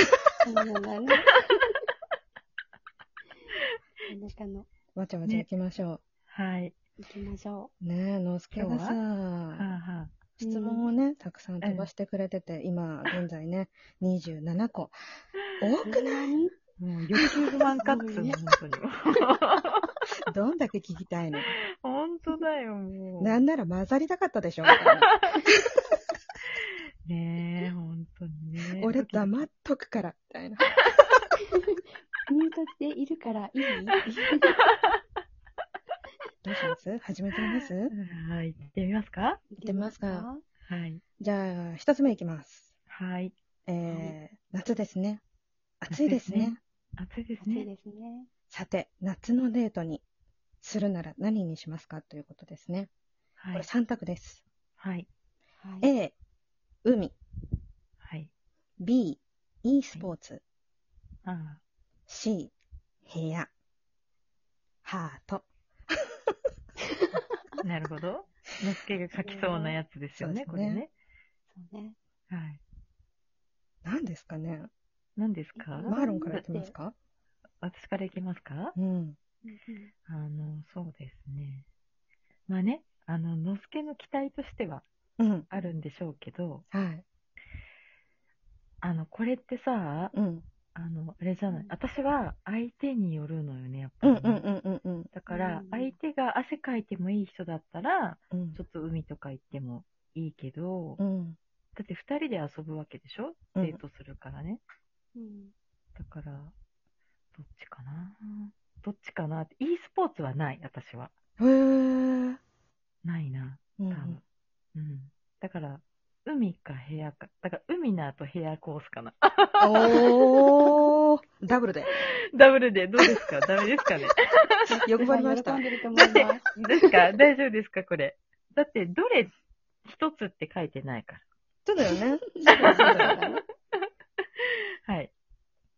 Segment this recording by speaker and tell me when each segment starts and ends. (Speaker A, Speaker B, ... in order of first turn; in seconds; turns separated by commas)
Speaker A: 0.4-1.4, Speaker A: 4.1-4.7, Speaker B: 5.0-6.0, Speaker C: 6.3-6.8, Speaker A: 7.0-7.7, Speaker B: 7.8-9.7, Speaker C: 8.5-9.0, Speaker C: 9.5-10.1, Speaker A: 10.4-10.9, Speaker B: 10.4-15.0, Speaker C: 11.6-11.9, Speaker B: 15.6-16.4, Speaker A: 15.9-16.5, Speaker C: 16.8-19.9, Speaker A: 17.8-18.4, Speaker B: 20.2-21.5, Speaker C: 21.5-23.4, Speaker B: 23.2-25.3, Speaker C: 24.7-25.4, Speaker C: 27.1-29.5, Speaker B: 28.8-30.9, Speaker A: 31.7-34.5, Speaker B: 33.7-33.9, Speaker C: 34.4-35.0, Speaker B: 36.4-37.9, Speaker C: 37.5-39.4, Speaker A: 39.5-40.4, Speaker B: 39.6-40.3, Speaker C: 40.7-41.0, Speaker B: 41.2-42.7, Speaker C: 42.9-44.1, Speaker B: 43.7-45.2, Speaker B: 45.8-46.6, Speaker C: 45.9-47.7, Speaker A: 47.4-48.3, Speaker B: 48.5-50.0, Speaker B: 50.6-52.9, Speaker C: 53.4-53.7, Speaker B: 53.5-54.4, Speaker C: 54.8-55.1, Speaker A: 55.6-55.9, Speaker B: 55.8-56.1, Speaker B: 56.8-57.2, Speaker C: 58.0-58.3, Speaker B: 58.8-60.4, Speaker C: 61.2-61.6, Speaker B: 62.1-62.5, Speaker B: 63.1-63.5, Speaker B: 64.8-66.3, Speaker C: 67.6-70.9, Speaker A: 69.2-69.8, Speaker B: 70.2-70.8, Speaker A: 71.5-72.0, Speaker C: 72.3-72.6, Speaker B: 73.8-74.7, Speaker C: 75.2-76.4, Speaker A: 75.5-76.7, Speaker B: 75.9-76.9, Speaker C: 77.6-78.7, Speaker B: 78.7-79.2, Speaker A: 79.4-79.9, Speaker C: 80.1-81.7, Speaker C: 82.5-84.8, Speaker B: 85.2-85.5, Speaker C: 85.5-86.6, Speaker B: 86.7-87.0, Speaker C: 88.8-90.1, Speaker B: 90.1-90.5, Speaker C: 90.7-94.4, Speaker B: 94.0-95.1, Speaker C: 95.1-101.0, Speaker A: 95.3-95.9, Speaker B: 98.3-98.6, Speaker B: 101.0-101.4, Speaker C: 101.7-104.6, Speaker B: 103.5-103.8, Speaker A: 105.1-105.5, Speaker C: 106.0-106.5, Speaker C: 107.3-111.1, Speaker B: 111.4-112.4, Speaker C: 113.0-114.2, Speaker B: 113.8-114.2, Speaker C: 114.8-120.6, Speaker B: 119.6-121.9, Speaker C: 122.3-124.7, Speaker A: 124.7-126.9, Speaker B: 124.8-125.6, Speaker C: 125.9-129.3, Speaker C: 129.8-131.2, Speaker B: 131.7-133.2, Speaker A: 132.3-133.4, Speaker C: 132.5-133.2, Speaker C: 134.4-135.1